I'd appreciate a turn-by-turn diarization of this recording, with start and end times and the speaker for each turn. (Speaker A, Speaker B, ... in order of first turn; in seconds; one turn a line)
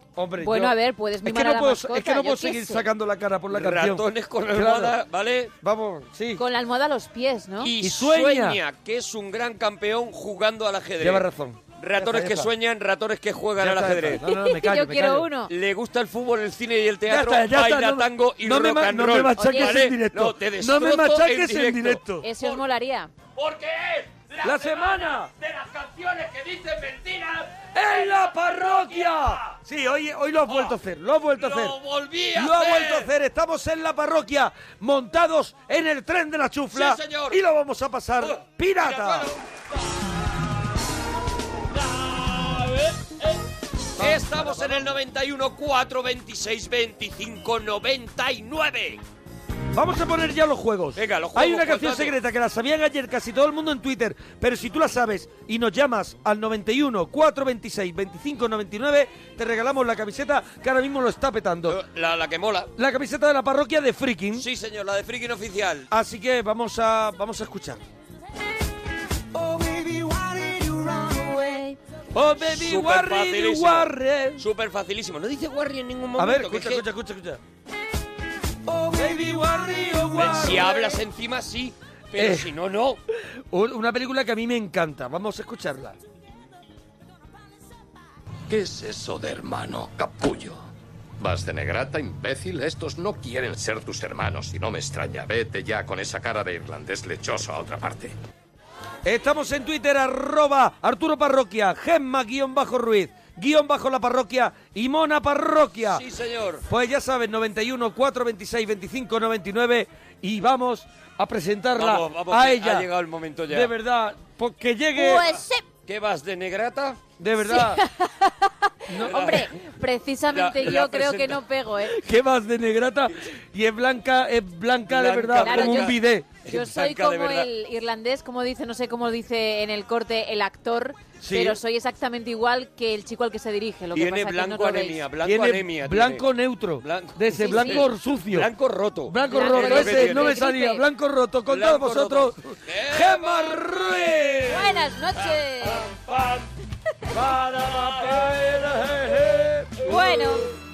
Speaker A: 0.2-5.0
Speaker B: 0.4-2.9
Speaker C: 3.5-5.5
Speaker A: 5.6-6.4
Speaker B: 6.4-7.7
Speaker C: 7.6-11.3
Speaker A: 7.8-8.6
Speaker A: 11.0-12.5
Speaker C: 11.8-14.2
Speaker A: 13.6-15.3
Speaker B: 14.2-15.5
Speaker C: 15.5-22.6
Speaker A: 17.1-22.3
Speaker B: 19.4-19.9
Speaker B: 22.2-23.1
Speaker C: 23.4-29.6
Speaker A: 24.4-25.3
Speaker A: 27.7-31.8
Speaker C: 30.5-30.8
Speaker C: 31.4-33.1
Speaker A: 32.3-39.3
Speaker C: 36.7-37.4
Speaker C: 38.2-39.4
Speaker C: 41.9-43.1
Speaker A: 44.0-44.9
Speaker C: 44.0-49.0
Speaker A: 49.7-61.8
Speaker C: 51.0-52.1
Speaker C: 61.7-62.7
Speaker A: 62.8-64.5
Speaker C: 64.3-65.9
Speaker A: 65.9-67.8
Speaker D: 69.4-71.3
Speaker A: 72.1-74.5
Speaker C: 72.4-76.8
Speaker A: 76.2-77.4
Speaker D: 78.7-79.3
Speaker A: 78.9-81.0
Speaker C: 80.2-83.0
Speaker A: 82.2-82.5
Speaker A: 83.5-86.0
Speaker E: 88.5-90.6
Speaker E: 91.2-98.1
Speaker A: 99.0-106.0
Speaker C: 105.9-106.6
Speaker A: 106.7-112.9
Speaker C: 111.8-113.7
Speaker A: 113.5-115.3
Speaker B: 115.0-115.6
Speaker C: 115.9-117.0
Speaker A: 117.2-117.8
Speaker B: 117.5-118.5
Speaker A: 118.9-119.4
Speaker C: 119.0-119.5
Speaker B: 119.1-121.9
Speaker C: 120.3-121.4
Speaker A: 121.9-126.3
Speaker C: 124.9-127.5
Speaker B: 125.4-135.0
Speaker A: 131.2-131.6
Speaker C: 133.9-136.2
Speaker A: 135.2-138.5
Speaker C: 136.8-140.4
Speaker B: 137.3-137.9
Speaker A: 139.1-144.8
Speaker B: 139.3-140.8
Speaker C: 141.5-143.7
Speaker B: 144.5-145.9
Speaker C: 145.7-146.4
Speaker A: 147.1-150.4
Speaker C: 147.5-148.3
Speaker B: 149.8-150.5